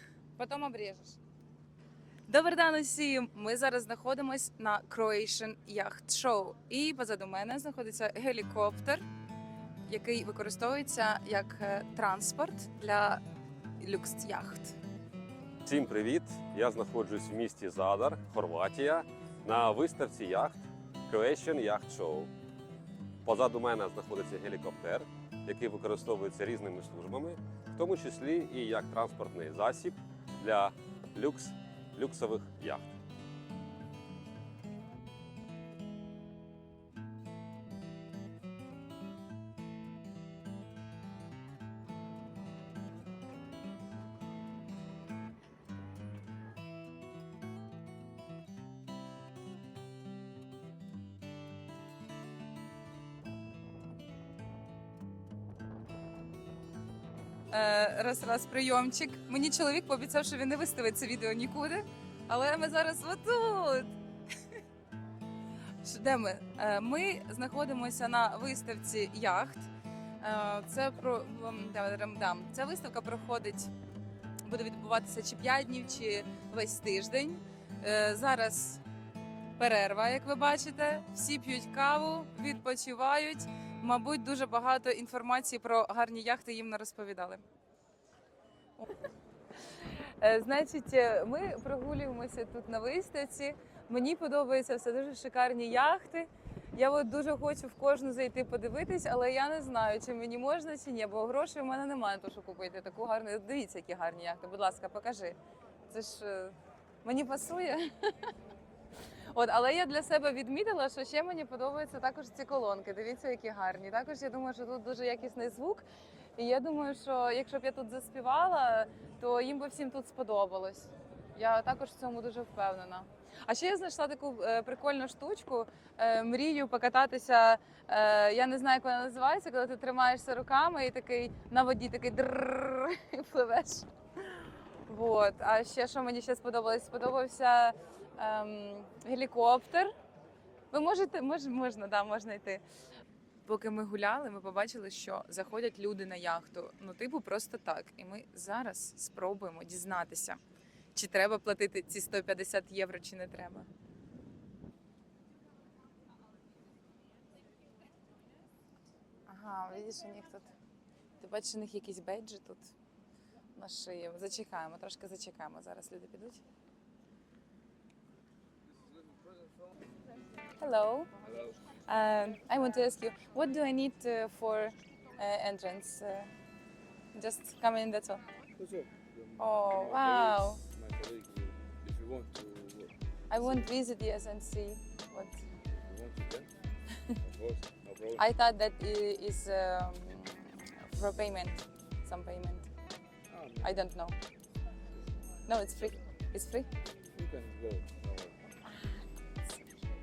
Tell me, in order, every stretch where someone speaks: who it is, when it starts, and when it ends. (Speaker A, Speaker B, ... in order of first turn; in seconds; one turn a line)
Speaker A: 0.4-1.2
Speaker A: 2.3-9.0
Speaker A: 9.9-13.2
Speaker A: 13.8-14.8
Speaker B: 15.7-22.3
Speaker B: 23.2-32.9
Speaker A: 57.5-63.9
Speaker A: 65.8-69.7
Speaker A: 70.2-73.7
Speaker A: 74.5-78.8
Speaker A: 79.6-87.4
Speaker A: 89.8-105.4
Speaker A: 105.9-107.9
Speaker A: 109.3-115.8
Speaker A: 116.4-133.9
Speaker A: 134.9-139.9
Speaker A: 140.7-142.6
Speaker A: 143.4-150.4
Speaker A: 150.9-153.7
Speaker A: 159.3-160.5
Speaker A: 161.2-162.7
Speaker A: 163.6-166.4
Speaker A: 170.6-171.1
Speaker C: 171.2-171.6
Speaker A: 171.9-176.3
Speaker A: 177.1-178.3
Speaker C: 178.6-183.7
Speaker A: 179.4-180.6
Speaker A: 183.3-185.4
Speaker C: 185.8-186.5
Speaker C: 187.2-188.2
Speaker A: 188.2-192.7
Speaker C: 193.3-193.8
Speaker A: 193.6-194.2
Speaker A: 195.5-196.7
Speaker C: 197.1-198.4